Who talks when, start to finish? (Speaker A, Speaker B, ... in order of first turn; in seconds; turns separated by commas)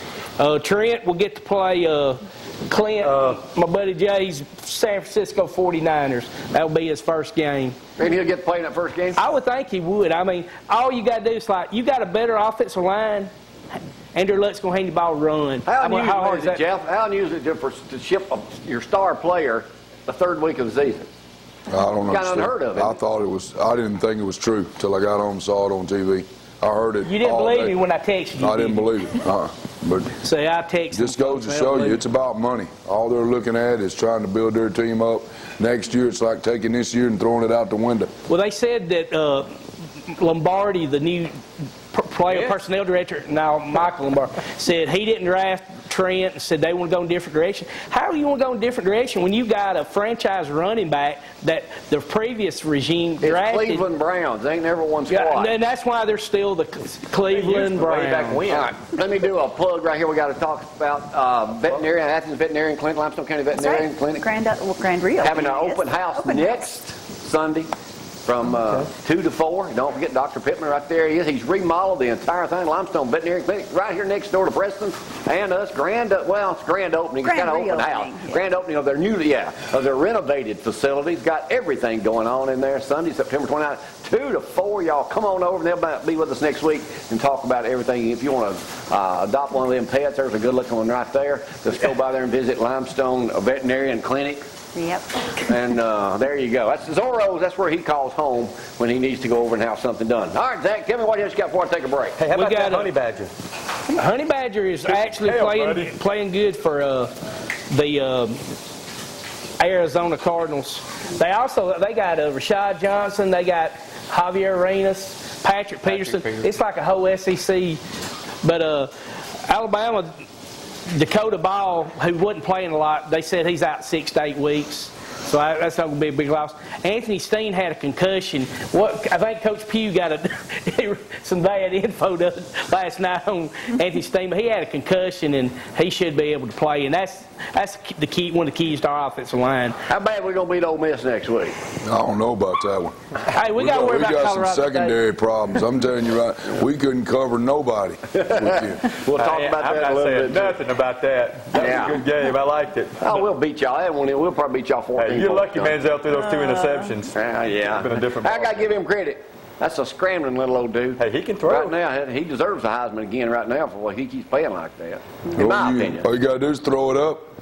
Speaker A: 0.4-7.8, Speaker B: 3.0-3.4, Speaker C: 8.0-9.2, Speaker A: 9.2-13.3, Speaker A: 14.1-16.6, Speaker C: 15.7-21.1, Speaker D: 21.7-27.8, Speaker C: 22.0-23.0, Speaker A: 27.0-28.9, Speaker D: 28.4-30.1, Speaker A: 30.2-32.0, Speaker D: 30.9-38.1, Speaker A: 38.3-39.5, Speaker A: 40.0-41.3, Speaker A: 41.9-53.8, Speaker B: 42.3-42.6, Speaker C: 53.2-55.5, Speaker A: 55.1-58.4, Speaker B: 57.2-58.7, Speaker C: 58.5-64.2, Speaker E: 63.5-66.6, Speaker C: 65.2-67.7, Speaker C: 68.2-94.4, Speaker E: 77.2-78.4, Speaker E: 94.7-95.5, Speaker C: 95.5-102.2, Speaker B: 102.2-103.3, Speaker A: 102.3-102.9, Speaker A: 103.9-107.1, Speaker B: 104.9-105.9, Speaker A: 107.7-108.4, Speaker A: 109.6-117.8, Speaker B: 115.8-116.5, Speaker A: 118.4-120.2, Speaker A: 120.9-139.8, Speaker C: 139.9-141.6, Speaker D: 141.8-142.9, Speaker A: 143.3-145.0, Speaker D: 143.4-148.9, Speaker C: 148.1-150.6, Speaker B: 149.1-153.2, Speaker C: 151.5-152.1, Speaker C: 153.0-155.8, Speaker B: 154.9-158.8, Speaker C: 157.1-166.1, Speaker B: 161.0-161.7, Speaker D: 165.3-167.2